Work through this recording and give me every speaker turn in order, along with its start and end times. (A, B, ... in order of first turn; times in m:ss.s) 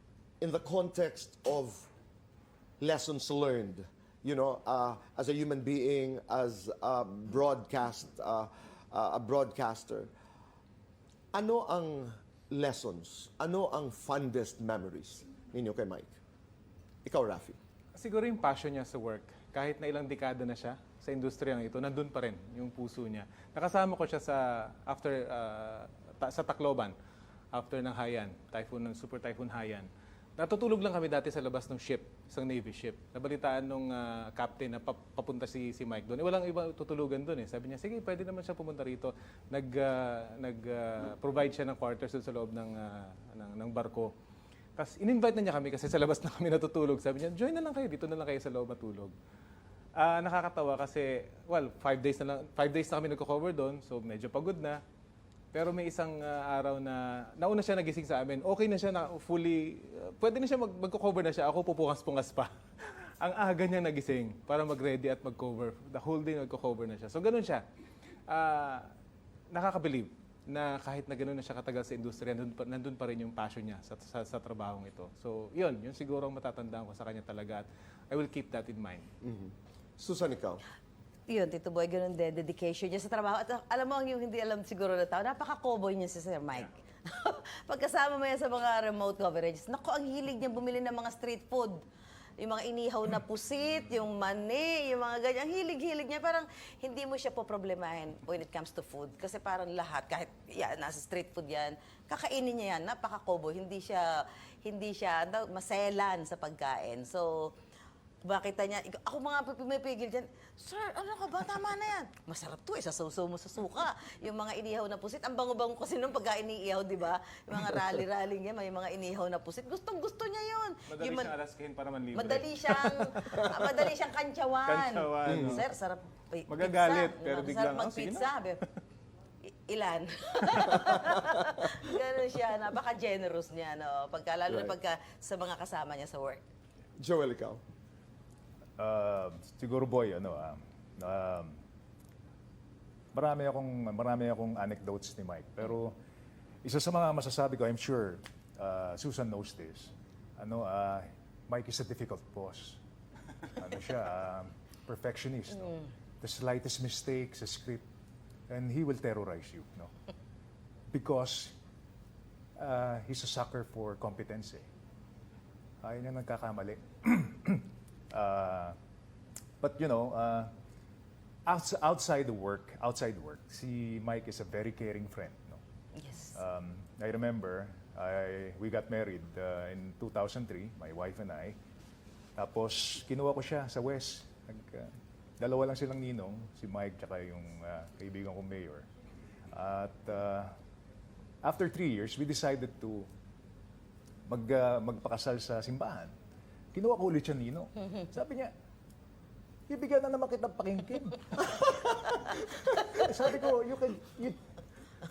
0:00.4-0:01.9 A
0:02.8-0:10.1 A
0:11.3-0:16.2 A
0:17.0-0:17.6 A
0:17.9-0:27.0 B
0:27.5-0:44.1 B
0:44.8-0:49.1 B
0:50.0-0:54.8 B
0:55.5-1:07.6 B
1:08.3-1:08.9 B
1:09.5-1:19.1 B
1:19.2-1:20.6 A
1:21.3-1:31.8 C
1:32.4-1:47.5 C
1:48.2-2:01.3 C
2:00.9-2:03.8 B
2:02.1-2:08.6 C
2:04.6-2:05.7 B
2:05.2-2:05.6 A
2:06.5-2:08.4 B
2:09.4-2:16.4 C
2:14.5-2:14.7 A
2:17.0-2:17.6 A
2:18.8-2:21.6 D
2:23.1-2:26.0 D
2:26.6-2:32.8 D
2:33.5-2:37.8 D
2:38.5-2:39.9 D
2:40.9-2:41.6 D
2:42.6-2:44.7 D
2:45.8-2:48.8 D
2:49.6-2:50.5 D
2:51.4-2:55.6 D
2:55.9-2:56.4 C
2:56.3-3:01.6 D
3:02.4-3:08.8 D
3:09.5-3:10.5 D
3:11.4-3:13.1 D
3:14.2-3:16.1 D
3:16.7-3:18.5 D
3:19.7-3:24.4 D